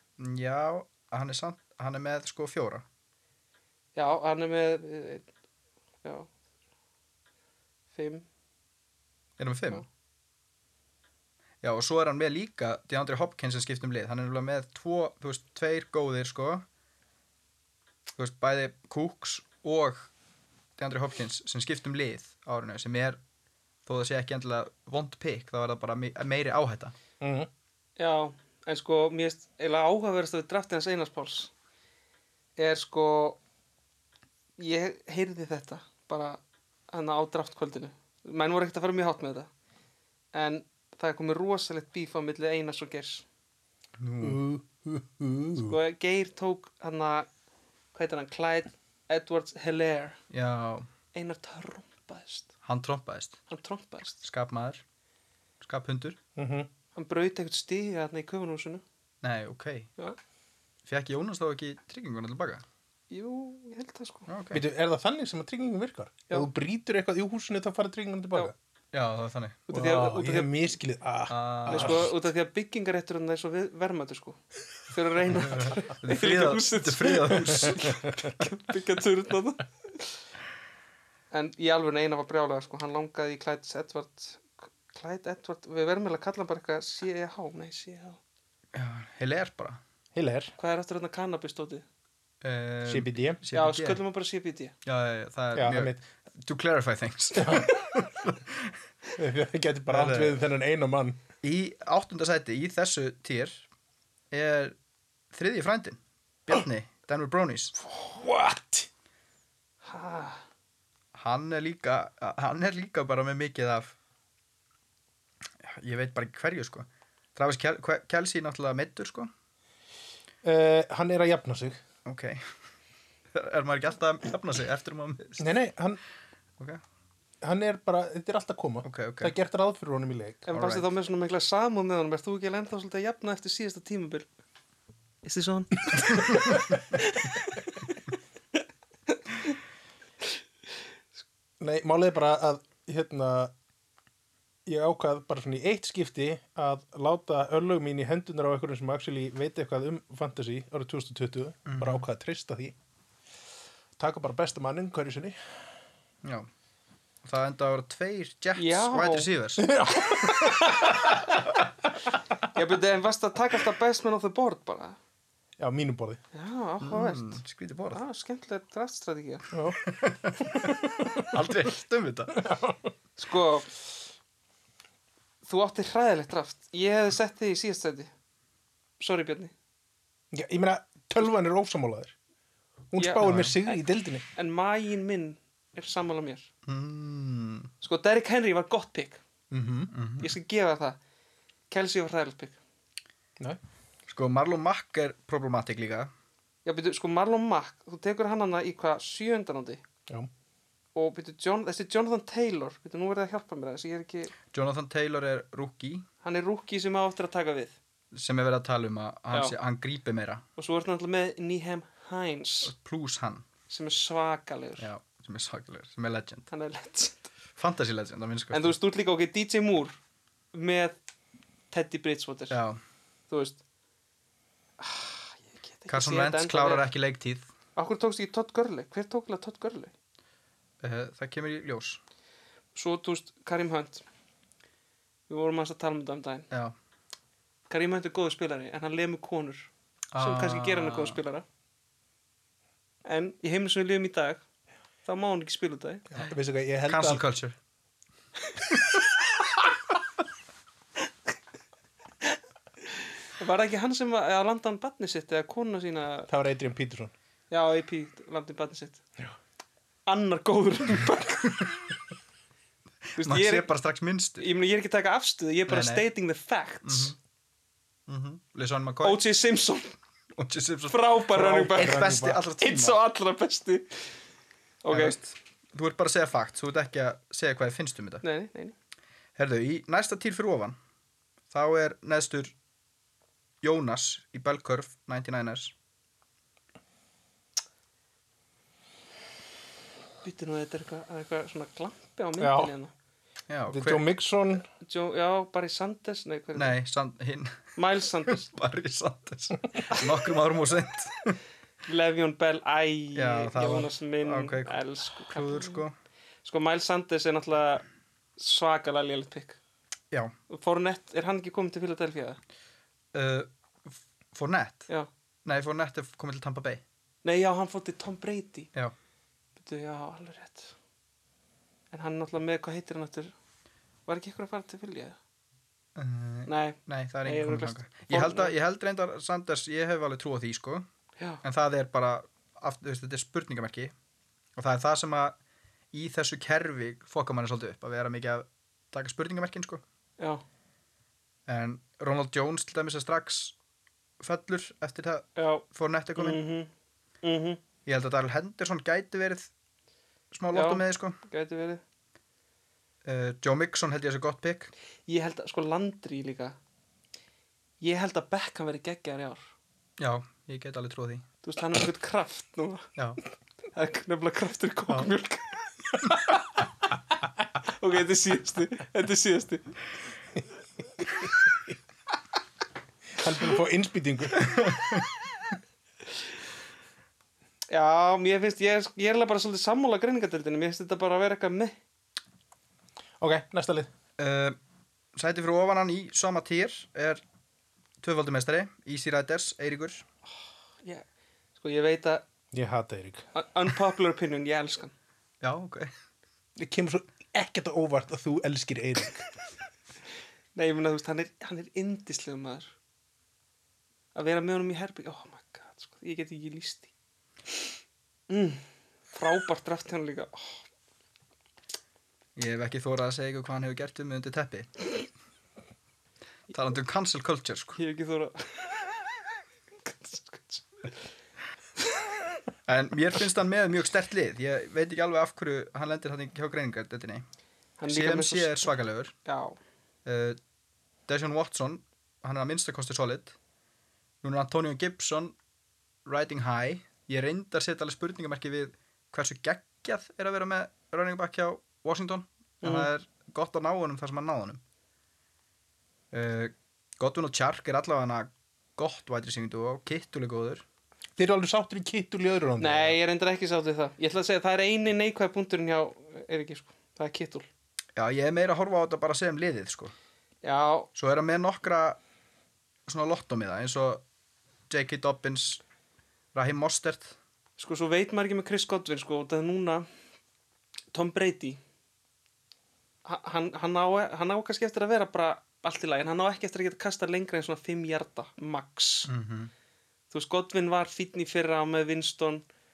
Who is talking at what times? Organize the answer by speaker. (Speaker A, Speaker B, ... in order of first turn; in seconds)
Speaker A: 0.2-2.8, 9.4-9.8, 11.6-16.6, 18.1-20.1, 20.8-23.2, 23.9-26.9, 44.0-44.4, 50.3-50.9, 52.6-53.4, 54.2-54.8, 55.6-56.2, 59.2-59.9, 60.9-62.6, 64.3-64.6, 68.9-69.6, 71.3-72.1, 75.4-78.0, 88.7-89.8, 92.4-94.0, 94.8-98.7, 99.9-100.4, 101.4-103.7, 104.3-104.8, 105.3-107.8, 111.1-113.9, 115.6-119.3, 122.0-122.5, 123.3-125.5, 128.8-129.3, 130.5-130.9, 151.7-152.1, 157.2-159.7, 166.8-168.0, 169.8-172.5, 183.2-183.6, 186.6-187.7, 189.9-190.3, 194.1-196.1, 204.5-206.1, 208.1-210.4, 212.6-213.4, 214.8-216.5, 217.6-218.7, 222.5-222.8, 225.9-227.5, 230.8-232.0, 240.1-241.2, 246.9-247.6, 263.1-264.5, 265.7-266.1, 266.8-267.1, 268.1-269.2, 270.4-273.0, 274.9-278.2, 279.4-280.8, 281.5-282.5, 283.6-285.7, 293.5-294.1, 296.6-297.8, 298.3-301.4, 303.1-305.9, 313.1-314.9, 315.4-316.8, 325.9-330.9, 331.4-333.9, 334.6-335.4, 335.9-339.8, 341.5-343.6, 344.2-346.4, 347.9-349.5, 350.3-351.2, 353.1-354.7, 360.0-361.2, 374.4-375.1, 384.2-384.6, 385.1-387.2, 388.0-390.0, 395.4-395.9, 412.4-414.9, 416.5-417.8, 422.7-427.2, 427.9-429.1, 430.1-430.4, 431.1-433.4, 434.2-435.4, 436.1-444.6, 446.1-450.6, 457.9-459.9, 460.9-462.0, 462.9-464.0, 464.7-465.6, 466.3-467.1, 479.1-479.5
Speaker B: 3.9-5.3, 6.0-6.3, 7.9-8.2, 28.0-31.5, 32.6-33.4, 34.6-39.5, 40.3-43.2, 45.6-47.3, 47.9-50.2, 51.1-52.5, 53.5-54.2, 56.9-58.8, 63.1-64.3, 69.7-70.7, 71.7-80.2, 81.3-88.2, 90.6-91.8, 93.5-94.7, 109.8-110.4, 130.5-134.3, 135.2-138.0, 158.6-159.3, 160.2-161.1, 162.5-165.0, 166.3-167.4, 167.9-169.5, 173.2-173.7, 175.4-178.1, 179.0-179.5, 183.0-183.8, 184.3-186.5, 187.8-189.2, 190.2-191.0, 191.7-192.6, 196.6-199.8, 200.9-204.3, 206.2-207.7, 210.6-212.7, 213.7-214.9, 216.5-217.3, 218.5-220.0, 220.5-220.9, 221.7-222.6, 223.3-223.6, 224.8-226.9, 227.8-229.9, 232.7-234.0, 235.3-236.5, 237.7-241.4, 243.1-244.4, 245.1-246.1, 252.9-256.3, 257.5-259.0, 260.1-261.7, 263.2-263.7, 264.4-267.1, 269.0-269.9, 270.9-274.1, 274.8-275.2, 278.2-278.7, 290.2-292.9, 294.8-296.8, 297.8-298.5, 301.9-305.8, 306.4-307.9, 308.4-309.6, 310.5-312.4, 317.2-318.7, 319.6-320.7, 321.9-323.3, 324.1-325.2, 326.5-328.5, 345.4-345.6, 346.1-346.7, 347.2-347.6, 350.5-351.8, 355.1-356.6, 357.8-359.5, 361.4-362.9, 363.7-366.4, 367.6-369.8, 377.7-381.7, 391.6-392.2, 393.4-394.9, 400.6-402.7, 404.1-406.9, 408.3-410.6, 417.8-419.0, 419.8-420.9, 421.8-422.1, 427.8-428.7, 429.2-429.6, 442.6-442.9, 452.6-457.5, 460.4-460.9, 467.6-469.9, 470.9-471.6, 473.1-479.1, 480.1-482.4
Speaker C: 27.2-27.5, 44.2-45.8, 56.4-56.7, 64.5-68.5, 69.7-72.1, 90.1-90.5, 92.9-93.4, 95.5-96.0, 97.3-97.8, 99.2-101.2, 108.0-108.9, 120.4-121.8, 125.4-126.0, 127.4-130.5, 141.6-143.5, 144.7-152.7, 154.0-155.4, 159.6-161.2, 165.6-166.2, 169.5-169.8, 170.8-171.2, 172.3-172.9, 180.3-182.1, 182.9-184.2, 189.5-189.9, 246.1-247.2, 256.3-257.1, 271.3-272.5, 292.4-292.7, 293.7-294.6, 373.2-374.6, 383.2-383.9, 392.5-393.2, 396.6-399.3, 451.2-453.0